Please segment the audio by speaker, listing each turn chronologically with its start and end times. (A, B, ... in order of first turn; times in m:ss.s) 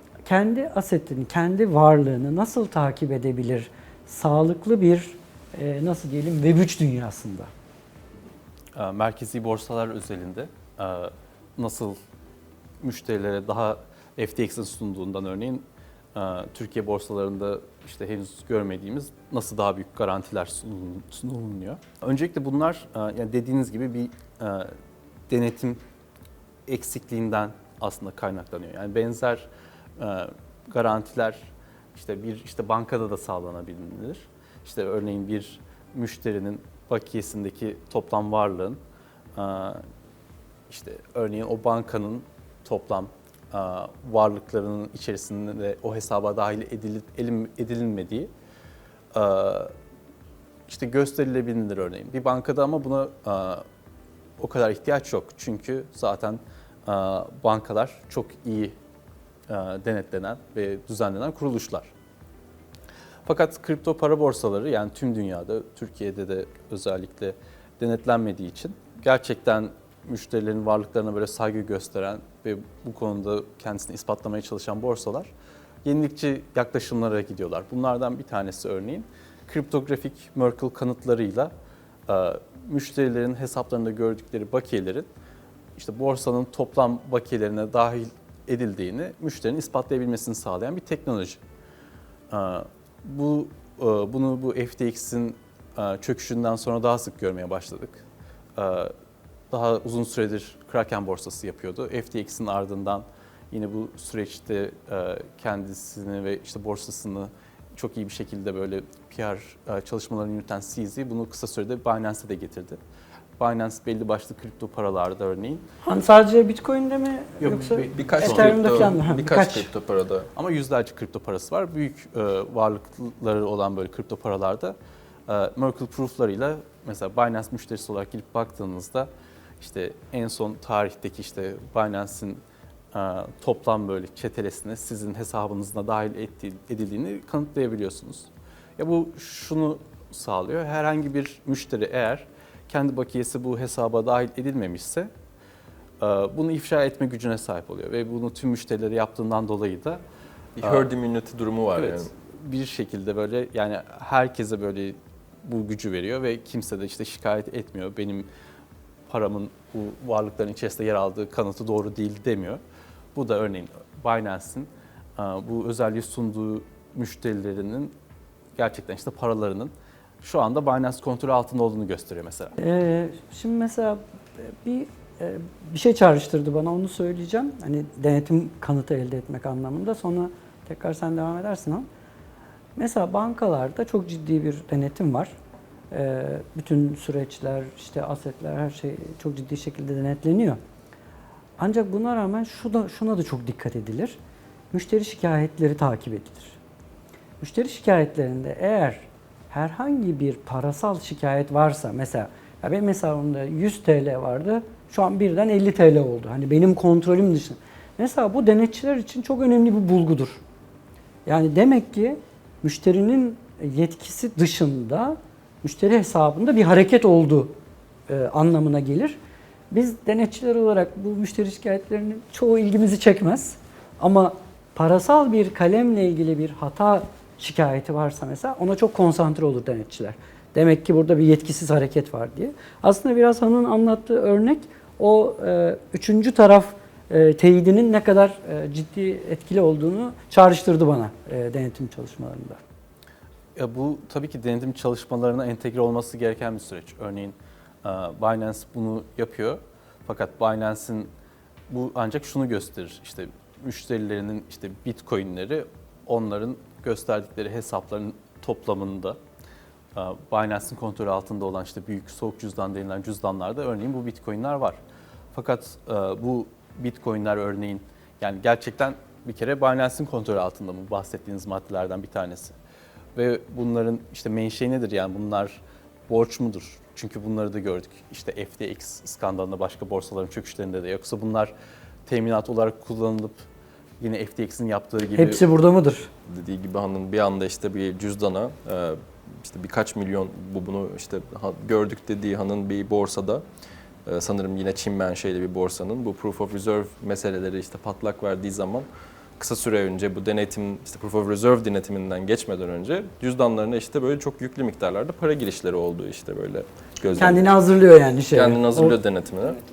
0:00.2-0:07.5 A
0:08.7-0:12.0 B
0:12.8-0:24.7 B
0:25.3-0:25.8 B
0:26.7-0:38.8 B
0:39.4-0:39.8 B
0:40.7-0:48.3 B
0:49.1-0:49.7 B
0:50.7-0:53.6 B
0:54.4-0:58.7 B
0:59.5-1:01.9 B
1:03.2-1:15.3 B
1:15.8-1:21.5 B
1:22.1-1:25.1 B
1:25.8-1:31.4 B
1:32.3-1:38.0 B
1:38.6-1:38.9 B
1:39.5-1:52.8 B
1:53.4-1:55.6 B
1:55.8-1:59.7 A
1:57.4-1:59.0 B
1:57.9-2:00.3 C
2:00.3-2:04.8 B
2:05.3-2:12.4 B
2:12.9-2:25.1 B
2:26.0-2:30.0 B
2:30.6-2:32.1 C
2:30.6-2:30.9 B
2:31.8-2:38.3 B
2:39.1-2:42.6 B
2:43.1-2:47.9 B
2:48.6-2:52.6 B
2:52.6-3:01.8 A
3:02.8-3:05.3 A
3:05.9-3:10.6 A
3:11.6-3:14.2 A
3:14.7-3:16.6 A
3:17.4-3:30.4 A
3:31.2-3:37.5 A
3:38.1-3:39.2 A
3:39.7-4:02.6 A
4:03.6-4:11.1 B
4:11.7-4:19.2 B
4:19.9-4:24.8 B
4:25.3-4:32.5 B
4:33.1-4:41.5 B
4:42.1-4:43.4 B
4:44.0-4:45.4 B
4:45.1-4:46.1 A
4:46.3-4:53.4 C
4:54.0-4:58.9 C
4:59.4-5:07.5 C
5:07.1-5:09.0 A
5:08.3-5:09.6 C